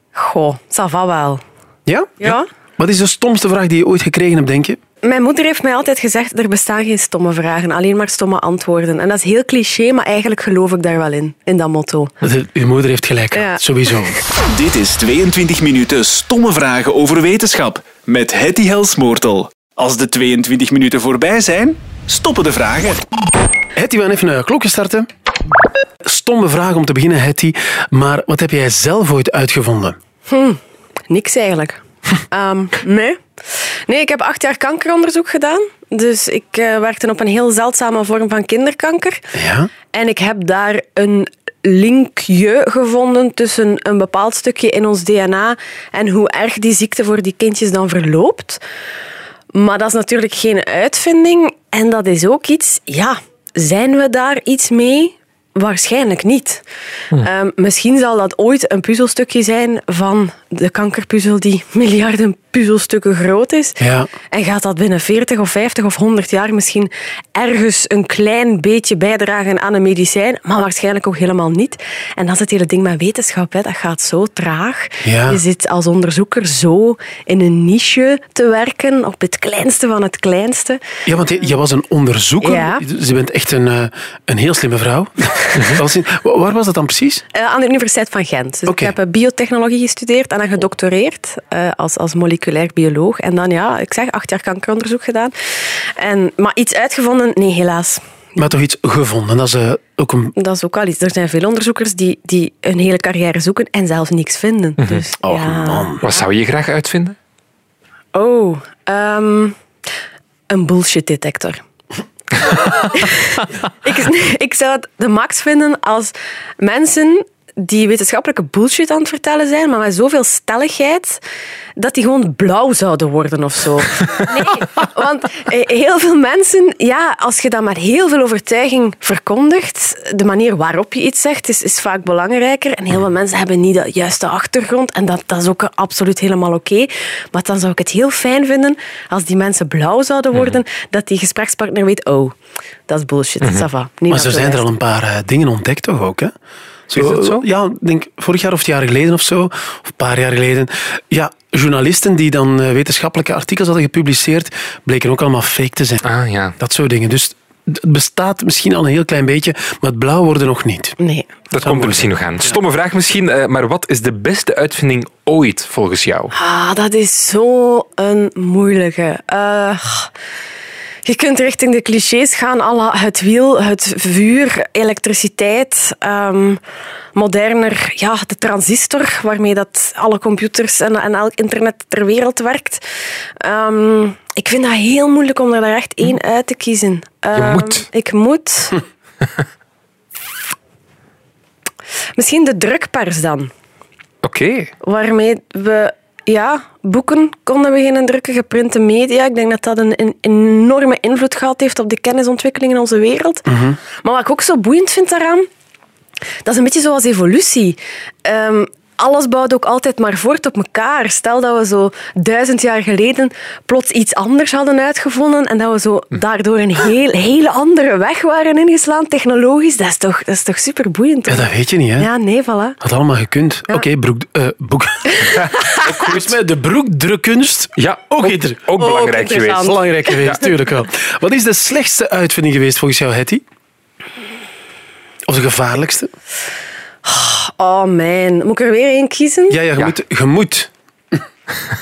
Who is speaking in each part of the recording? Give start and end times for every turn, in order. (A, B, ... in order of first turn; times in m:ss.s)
0:00.2-0:01.4 A
0:01.9-0:04.8 B
0:02.2-0:02.5 A
0:05.0-0:12.1 A
0:12.2-0:14.2 B
0:13.3-0:13.6 A
0:14.5-0:23.0 C
0:23.8-0:25.1 B
0:26.0-0:30.0 B
0:30.3-0:39.3 A
0:39.3-0:39.7 B
0:39.9-0:48.6 A
0:49.5-0:56.6 A
0:57.2-1:03.8 A
1:03.8-1:04.1 B
1:04.3-1:20.8 A
1:15.0-1:15.4 B
1:21.1-1:27.2 B
1:22.4-1:22.8 A
1:27.3-1:38.0 A
1:28.7-1:28.9 B
1:38.4-1:40.4 B
1:40.4-1:46.0 A
1:45.2-1:46.1 B
1:46.0-1:47.2 D
1:48.1-1:49.6 A
1:50.5-1:51.6 A
1:52.4-2:01.2 A
2:01.8-2:22.4 A
2:22.9-2:24.6 A
2:24.1-2:26.3 B
2:26.9-2:36.0 B
2:26.9-2:27.4 D
2:36.0-2:36.6 D
2:36.6-2:41.0 B
2:41.0-2:41.3 A
2:41.5-2:46.3 D
2:41.6-2:42.0 B
2:46.3-2:50.1 A
2:51.0-2:56.6 A
2:57.2-3:02.8 A
3:03.4-3:08.8 A
3:07.4-3:07.8 D
3:12.2-3:13.5 A
3:14.2-3:14.7 D
3:14.8-3:25.5 A
3:23.5-3:23.8 B
3:26.4-3:42.8 A
3:41.3-3:42.1 B
3:42.8-3:48.6 B
3:45.3-3:45.9 A
3:45.9-3:46.2 D
3:47.8-3:50.4 D
3:48.8-3:50.1 A
3:49.6-3:53.4 B
3:55.3-3:56.1 B
3:57.0-3:59.6 A
3:59.5-4:01.2 B